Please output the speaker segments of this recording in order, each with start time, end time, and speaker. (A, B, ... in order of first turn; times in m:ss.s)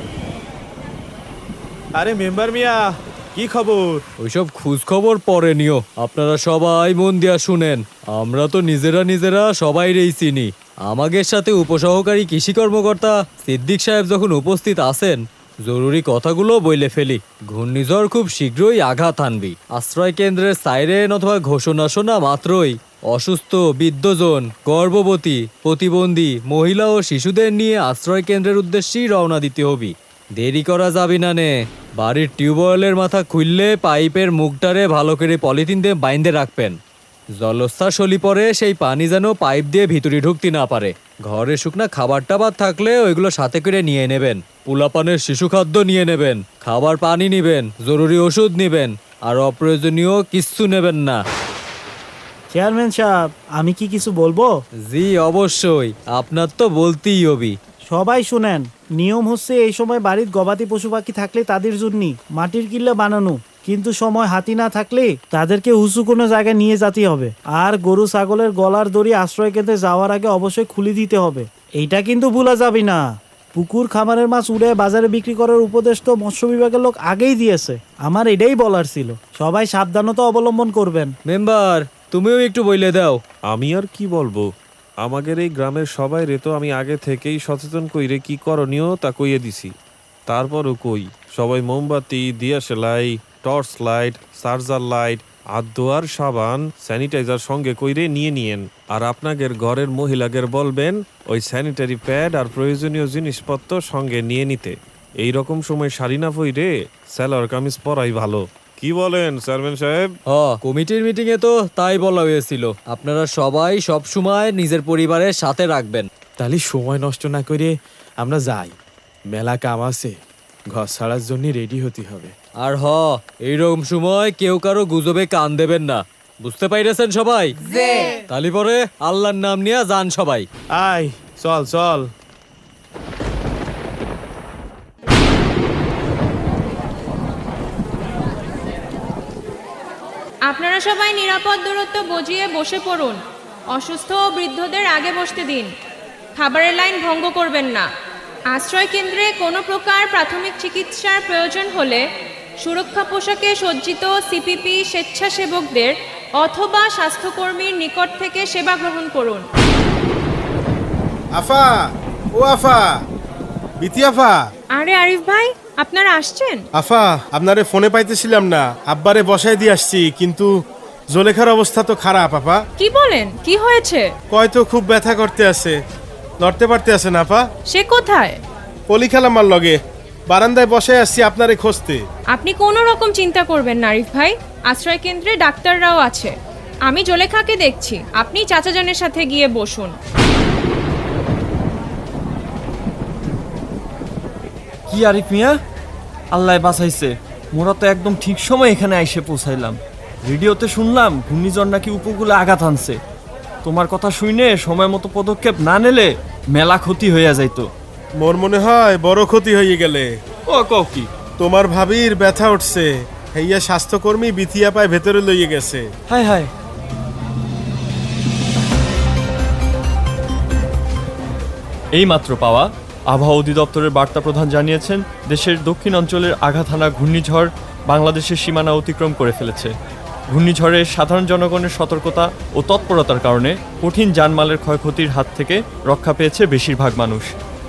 0:02.0-0:04.0 A
0:04.2-0:36.8 B
0:37.4-0:51.2 B
0:52.5-0:54.5 C
0:54.9-0:57.6 B
0:57.9-1:21.1 C
1:21.3-1:23.2 B
1:23.5-1:24.5 D
1:25.0-1:29.7 D
1:30.3-1:50.1 D
1:50.3-1:56.1 B
1:56.4-1:58.7 A
1:59.3-2:00.1 A
2:00.7-2:02.3 A
2:02.6-2:07.5 B
2:08.3-2:10.5 B
2:10.8-2:12.1 A
2:20.5-2:23.2 E
2:23.8-2:25.7 E
2:26.4-2:27.8 E
2:28.5-2:32.0 E
2:32.6-2:39.4 E
2:41.4-2:41.8 F
2:42.4-2:42.9 F
2:43.8-2:44.4 F
2:44.8-2:46.6 E
2:46.8-2:50.5 F
2:51.1-2:52.6 F
2:52.8-2:54.0 E
2:54.3-2:55.8 F
2:56.4-2:57.4 F
2:57.7-2:58.4 E
2:58.9-2:59.8 F
3:00.3-3:02.0 F
3:02.3-3:06.3 E
3:06.9-3:09.9 E
3:14.9-3:15.5 G
3:16.3-3:23.0 G
3:23.6-3:27.7 G
3:28.2-3:30.1 F
3:30.5-3:31.1 G
3:31.4-3:35.9 F
3:36.1-3:36.5 G
3:42.0-3:49.7 G
3:50.3-3:57.3 G